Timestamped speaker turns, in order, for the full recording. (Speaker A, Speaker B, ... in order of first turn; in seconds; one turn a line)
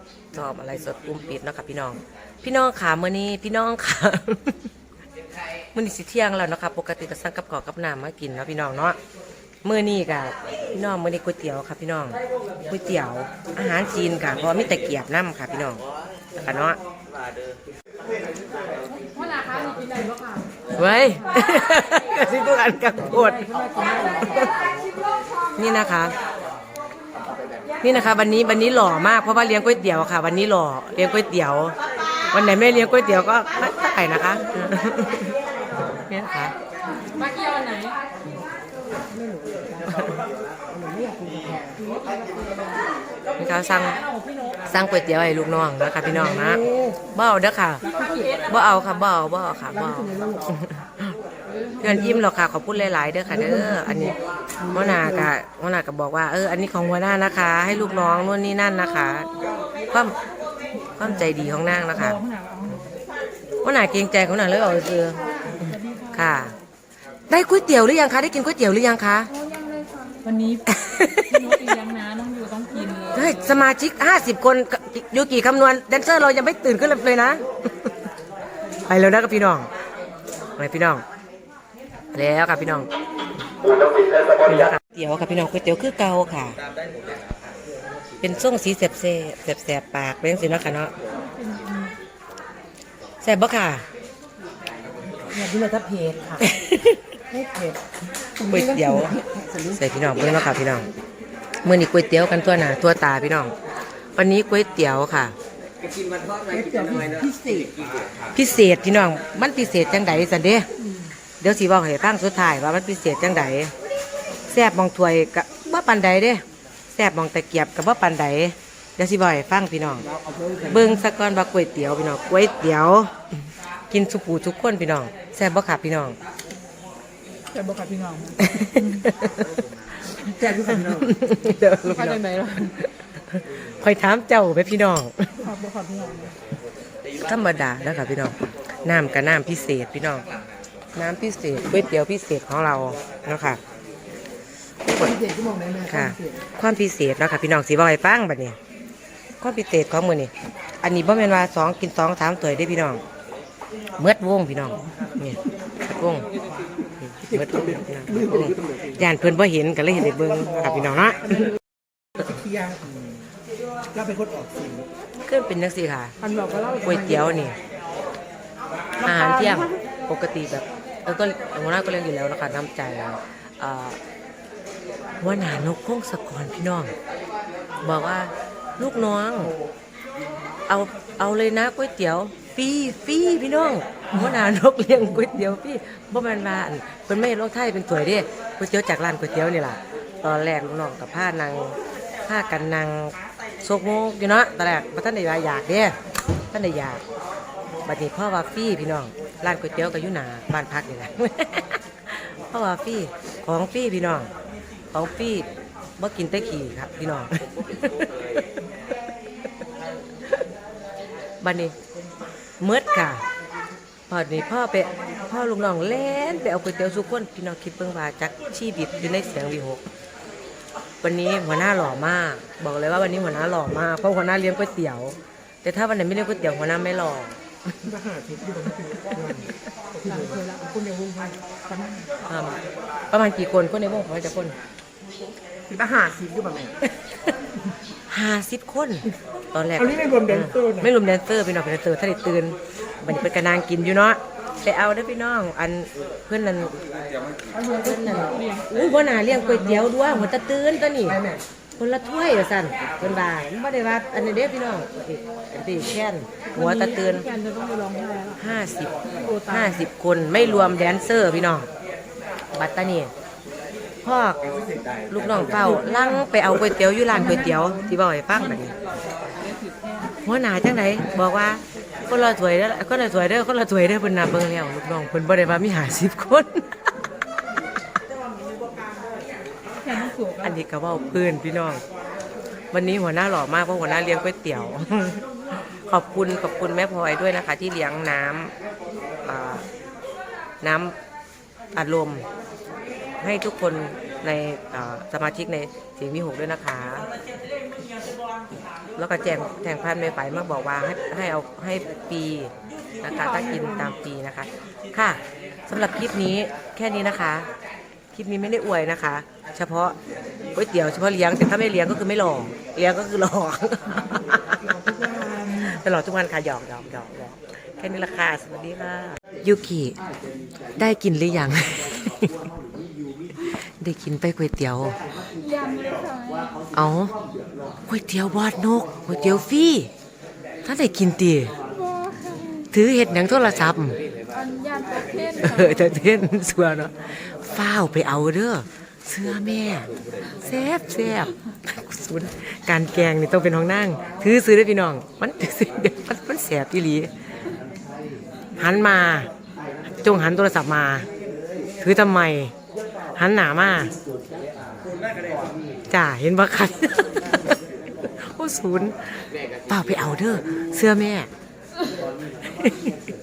Speaker A: 0.3-4.7
Speaker A: 5.7-9.0
Speaker A: 9.6-15.8
Speaker A: 16.4-16.8
Speaker B: 18.9-20.5
Speaker A: 20.7-23.5
Speaker B: 23.2-24.3
Speaker A: 24.1-24.5
Speaker A: 25.6-26.1
Speaker A: 27.8-31.8
Speaker A: 32.3-35.4
Speaker A: 36.1-36.5
Speaker B: 37.1-38.0
Speaker C: 39.1-40.0
Speaker A: 39.9-40.2
Speaker C: 40.7-41.9
Speaker B: 41.9-42.6
Speaker A: 43.4-44.0
Speaker A: 44.6-47.9
Speaker C: 46.2-47.0
Speaker B: 48.0-48.4
Speaker A: 48.5-51.2
Speaker C: 50.0-50.4
Speaker A: 51.8-54.1
Speaker A: 54.7-59.3
Speaker C: 54.7-55.1
Speaker A: 59.9-60.1
Speaker A: 61.0-62.2
Speaker B: 61.9-62.9
Speaker A: 63.6-66.5
Speaker B: 65.5-66.2
Speaker A: 67.3-69.3
Speaker B: 69.3-70.6
Speaker A: 70.7-71.6
Speaker B: 71.2-73.6
Speaker A: 73.1-78.0
Speaker A: 78.8-79.7
Speaker A: 80.6-81.0
Speaker A: 82.1-82.9
Speaker A: 84.4-86.6
Speaker A: 88.2-90.9
Speaker B: 91.1-91.9
Speaker A: 93.2-93.8
Speaker C: 95.3-96.4
Speaker A: 96.4-97.0
Speaker C: 97.3-97.8
Speaker C: 98.4-99.8
Speaker A: 98.5-99.2
Speaker A: 99.7-100.9
Speaker A: 101.6-103.5
Speaker A: 104.2-105.3
Speaker C: 106.4-107.7
Speaker A: 108.3-110.7
Speaker A: 111.4-113.7
Speaker A: 114.5-116.4
Speaker A: 116.9-120.0
Speaker C: 120.3-120.8
Speaker A: 120.7-123.1
Speaker A: 123.9-126.2
Speaker B: 127.5-129.0
Speaker A: 128.4-129.5
Speaker C: 130.3-131.1
Speaker A: 130.6-135.5
Speaker B: 131.8-132.8
Speaker B: 135.4-136.3
Speaker A: 137.2-140.2
Speaker A: 140.9-143.6
Speaker C: 144.8-146.3
Speaker A: 145.8-148.6
Speaker A: 149.4-153.0
Speaker A: 154.0-156.3
Speaker A: 157.0-161.5
Speaker C: 158.1-158.6
Speaker C: 162.2-163.1
Speaker C: 163.9-164.9
Speaker A: 165.2-166.2
Speaker B: 166.2-166.8
Speaker C: 166.3-166.9
Speaker A: 166.8-167.6
Speaker A: 169.0-174.0
Speaker B: 169.1-169.6
Speaker A: 175.2-176.9
Speaker A: 177.8-179.5
Speaker A: 180.7-195.9
Speaker A: 196.5-197.0
Speaker A: 197.8-204.3
Speaker A: 204.9-208.5
Speaker A: 211.4-211.7
Speaker A: 212.6-213.2
Speaker A: 214.1-219.8
Speaker A: 221.0-227.4
Speaker C: 227.8-230.4
Speaker B: 230.0-232.1
Speaker A: 232.3-232.6
Speaker A: 233.1-234.5
Speaker C: 235.7-236.8
Speaker A: 238.1-246.8
Speaker C: 239.8-240.9
Speaker C: 247.5-248.2
Speaker A: 247.8-251.2
Speaker B: 248.1-248.7
Speaker A: 251.8-257.2
Speaker B: 256.5-258.4
Speaker A: 258.4-258.9
Speaker B: 259.1-259.9
Speaker A: 259.5-261.7
Speaker A: 262.5-263.1
Speaker A: 264.0-264.4
Speaker A: 265.1-268.7
Speaker B: 265.7-266.1
Speaker B: 267.1-267.9
Speaker B: 269.4-270.1
Speaker A: 270.2-276.7
Speaker B: 279.8-280.5
Speaker A: 280.4-281.8
Speaker A: 282.7-288.5
Speaker A: 289.2-289.6
Speaker A: 290.6-290.9
Speaker A: 291.7-292.2
Speaker A: 293.2-297.1
Speaker A: 299.0-307.5
Speaker B: 303.2-303.9
Speaker A: 308.1-309.9
Speaker A: 310.5-314.7
Speaker C: 314.8-315.6
Speaker A: 315.5-320.0
Speaker A: 320.8-322.5
Speaker A: 323.4-325.0
Speaker B: 325.3-326.6
Speaker A: 326.7-327.1
Speaker A: 327.9-329.9
Speaker A: 330.6-331.5
Speaker B: 331.8-332.6
Speaker A: 332.7-334.0
Speaker B: 334.3-335.4
Speaker A: 335.4-339.9
Speaker A: 340.4-347.1
Speaker A: 348.6-349.3
Speaker A: 349.9-351.1
Speaker A: 351.8-352.5
Speaker A: 353.1-353.9
Speaker A: 355.9-357.6
Speaker A: 358.2-361.3
Speaker A: 362.5-362.9